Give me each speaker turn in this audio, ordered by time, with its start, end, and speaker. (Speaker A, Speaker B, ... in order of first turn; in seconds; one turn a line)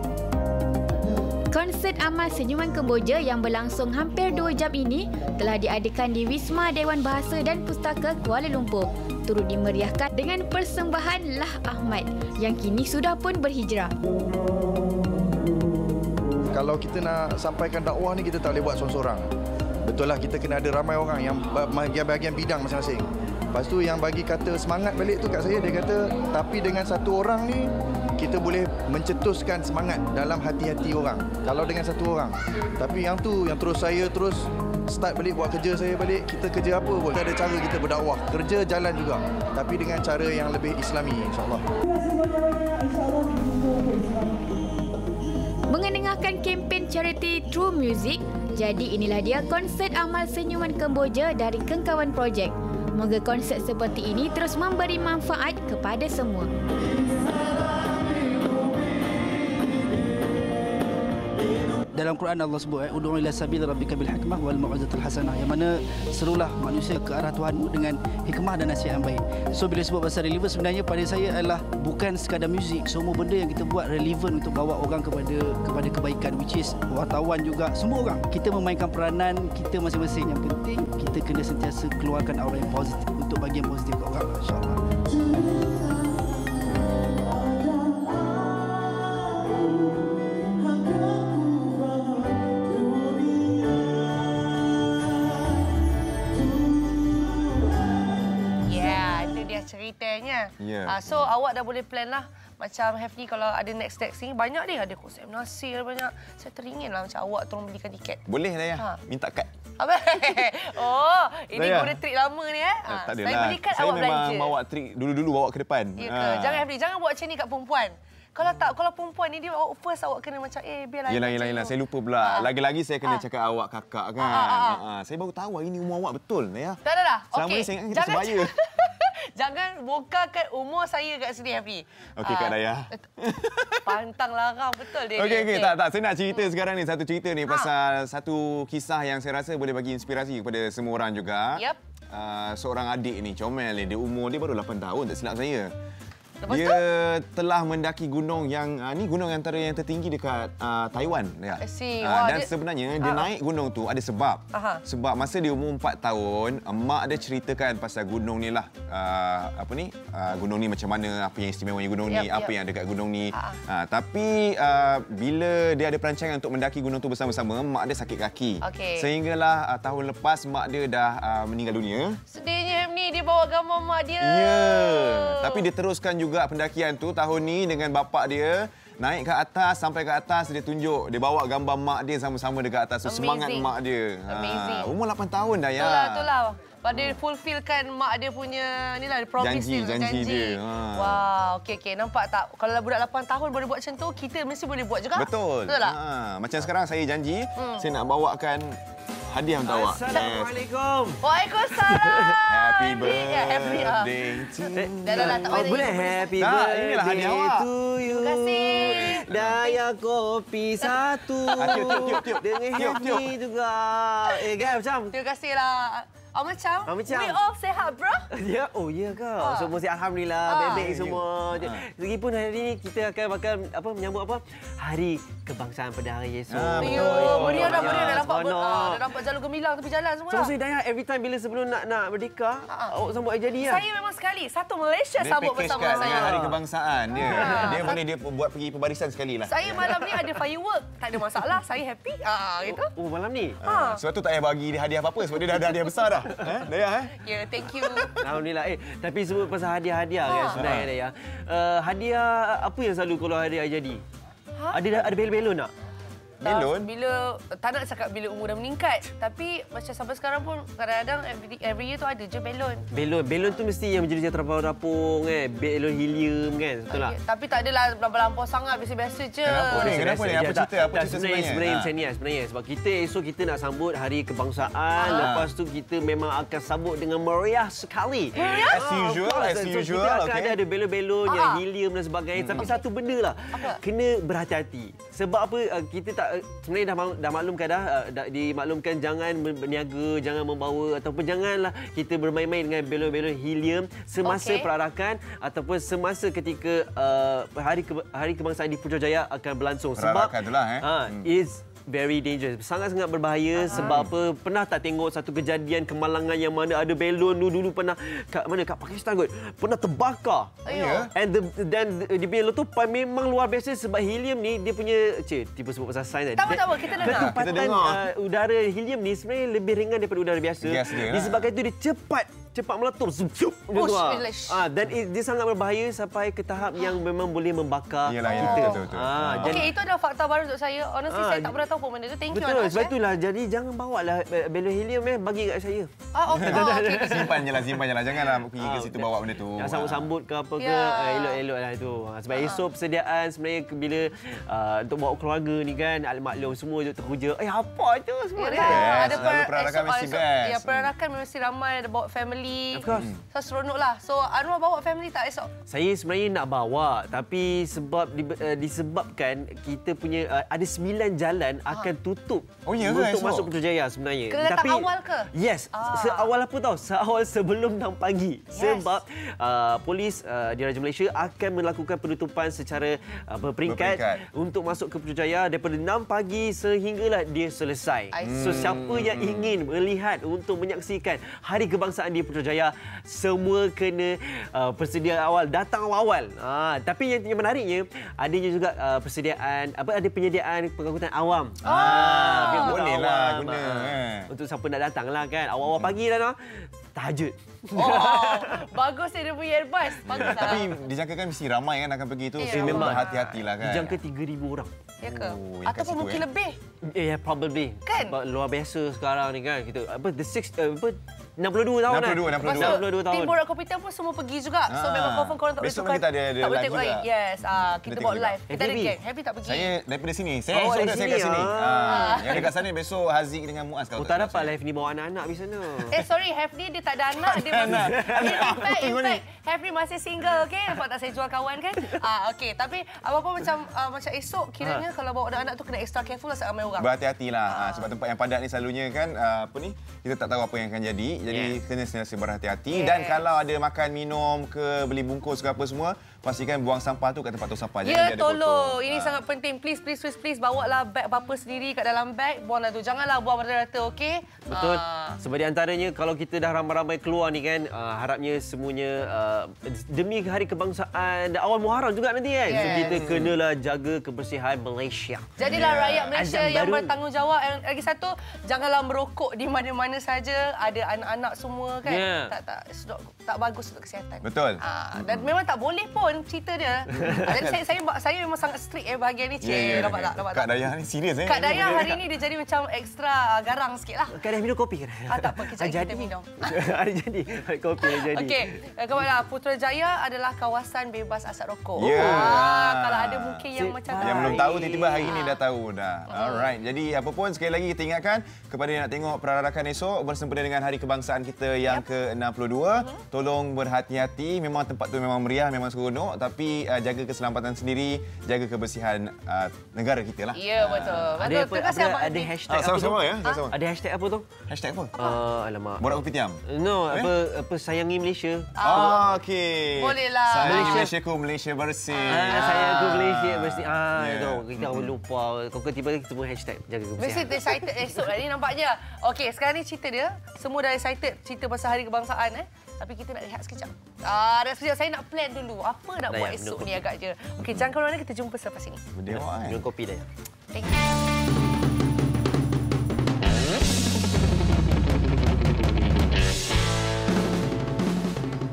Speaker A: 1.5-13.9
Speaker B: 16.5-19.3
Speaker B: 19.8-41.6
Speaker A: 45.7-56.5
Speaker C: 61.9-84.8
Speaker D: 98.6-108.2
Speaker E: 100.6-101.2
Speaker E: 108.3-109.5
Speaker D: 109.8-114.5
Speaker E: 111.5-112.0
Speaker E: 112.8-116.6
Speaker D: 116.0-122.5
Speaker E: 121.1-126.8
Speaker D: 124.2-124.8
Speaker D: 126.8-132.5
Speaker E: 127.3-128.5
Speaker E: 132.2-133.8
Speaker D: 133.8-135.7
Speaker E: 135.1-145.7
Speaker D: 146.4-146.8
Speaker E: 146.5-172.2
Speaker D: 151.6-152.5
Speaker D: 153.0-153.3
Speaker D: 154.5-154.8
Speaker D: 162.1-162.5
Speaker D: 168.6-169.1
Speaker D: 172.3-175.6
Speaker E: 174.2-186.3
Speaker D: 183.0-183.7
Speaker D: 184.3-184.9
Speaker D: 185.8-195.9
Speaker E: 189.4-191.2
Speaker E: 195.1-198.8
Speaker D: 197.6-197.8
Speaker E: 199.3-200.5
Speaker F: 199.6-201.2
Speaker D: 201.2-204.1
Speaker F: 201.8-202.3
Speaker E: 202.5-207.7
Speaker F: 204.7-215.1
Speaker D: 205.0-206.3
Speaker D: 208.1-209.8
Speaker E: 208.7-209.6
Speaker E: 211.5-213.3
Speaker D: 211.6-212.2
Speaker D: 215.1-218.2
Speaker F: 216.9-217.4
Speaker F: 218.3-229.1
Speaker D: 219.4-219.7
Speaker D: 220.5-220.8
Speaker E: 220.7-221.8
Speaker E: 226.5-228.2
Speaker D: 226.8-230.5
Speaker F: 230.3-233.8
Speaker D: 233.6-236.3
Speaker E: 235.2-239.9
Speaker F: 236.0-236.6
Speaker D: 237.2-238.0
Speaker D: 239.5-242.9
Speaker F: 242.7-243.6
Speaker E: 243.6-247.1
Speaker D: 243.6-244.0
Speaker D: 247.2-248.1
Speaker F: 248.2-254.0
Speaker D: 250.2-250.6
Speaker E: 250.5-250.9
Speaker F: 254.7-255.7
Speaker E: 256.4-256.9
Speaker D: 256.4-262.8
Speaker F: 262.9-267.1
Speaker D: 266.9-269.9
Speaker E: 269.4-271.9
Speaker F: 269.7-310.6
Speaker D: 275.0-275.3
Speaker E: 275.1-275.5
Speaker D: 278.4-278.8
Speaker E: 278.6-280.6
Speaker D: 281.3-281.6
Speaker E: 282.4-282.7
Speaker D: 282.6-282.8
Speaker D: 283.5-283.8
Speaker D: 294.2-294.7
Speaker E: 300.0-301.2
Speaker D: 303.6-303.9
Speaker E: 303.7-304.1
Speaker D: 310.6-311.1
Speaker E: 310.7-311.1
Speaker F: 311.1-329.7
Speaker D: 316.4-317.3
Speaker E: 316.7-318.0
Speaker E: 320.6-321.4
Speaker D: 323.7-324.6
Speaker E: 328.1-329.6
Speaker D: 328.4-328.8
Speaker D: 329.4-332.9
Speaker F: 331.1-331.6
Speaker F: 332.3-335.9
Speaker D: 336.1-337.4
Speaker E: 336.4-340.1
Speaker F: 336.4-337.2
Speaker F: 338.6-349.3
Speaker D: 340.6-341.4
Speaker D: 342.3-342.6
Speaker D: 348.4-355.5
Speaker E: 348.6-350.9
Speaker F: 352.7-353.1
Speaker E: 352.9-353.1
Speaker F: 355.7-396.4
Speaker E: 362.6-363.5
Speaker D: 364.3-366.3
Speaker D: 368.5-368.9
Speaker E: 373.6-374.2
Speaker D: 378.1-378.6
Speaker E: 378.2-379.5
Speaker D: 391.6-392.8
Speaker E: 391.6-394.3
Speaker E: 395.6-395.9
Speaker F: 396.9-398.4
Speaker D: 397.7-400.6
Speaker E: 400.1-404.0
Speaker D: 402.4-403.3
Speaker F: 402.5-403.1
Speaker F: 403.6-404.7
Speaker D: 405.0-406.6
Speaker E: 405.1-406.2
Speaker F: 406.9-413.4
Speaker D: 407.9-408.1
Speaker E: 411.9-412.8
Speaker D: 412.4-419.7
Speaker E: 414.7-418.4
Speaker F: 418.5-418.9
Speaker E: 419.4-424.5
Speaker F: 420.5-422.5
Speaker D: 421.9-422.2
Speaker F: 424.0-425.9
Speaker D: 425.9-436.9
Speaker E: 427.2-429.2
Speaker E: 436.8-449.1
Speaker D: 437.5-437.9
Speaker D: 442.7-443.2
Speaker D: 447.8-455.2
Speaker F: 454.5-465.5
Speaker D: 462.5-463.0
Speaker E: 462.5-463.3
Speaker D: 465.4-480.5
Speaker E: 465.4-466.2
Speaker F: 466.1-466.9
Speaker F: 471.8-472.3
Speaker E: 474.2-475.3
Speaker E: 476.9-477.5
Speaker E: 479.4-482.0
Speaker D: 481.2-484.1
Speaker F: 484.1-488.5
Speaker D: 485.1-486.5
Speaker D: 487.8-495.4
Speaker E: 491.8-493.4
Speaker F: 491.9-492.4
Speaker F: 493.6-495.1
Speaker E: 493.9-511.1
Speaker D: 496.1-496.5
Speaker D: 510.3-512.3
Speaker F: 511.2-514.2
Speaker E: 512.5-513.5
Speaker E: 514.5-514.9
Speaker F: 515.0-518.8
Speaker E: 515.8-517.1
Speaker D: 518.6-519.0
Speaker E: 518.6-524.9
Speaker D: 519.8-520.9
Speaker F: 520.4-520.9
Speaker D: 521.9-522.7
Speaker F: 522.1-527.7
Speaker D: 527.0-538.8
Speaker F: 536.1-536.8
Speaker E: 538.9-539.6
Speaker F: 539.1-540.0
Speaker D: 540.5-540.8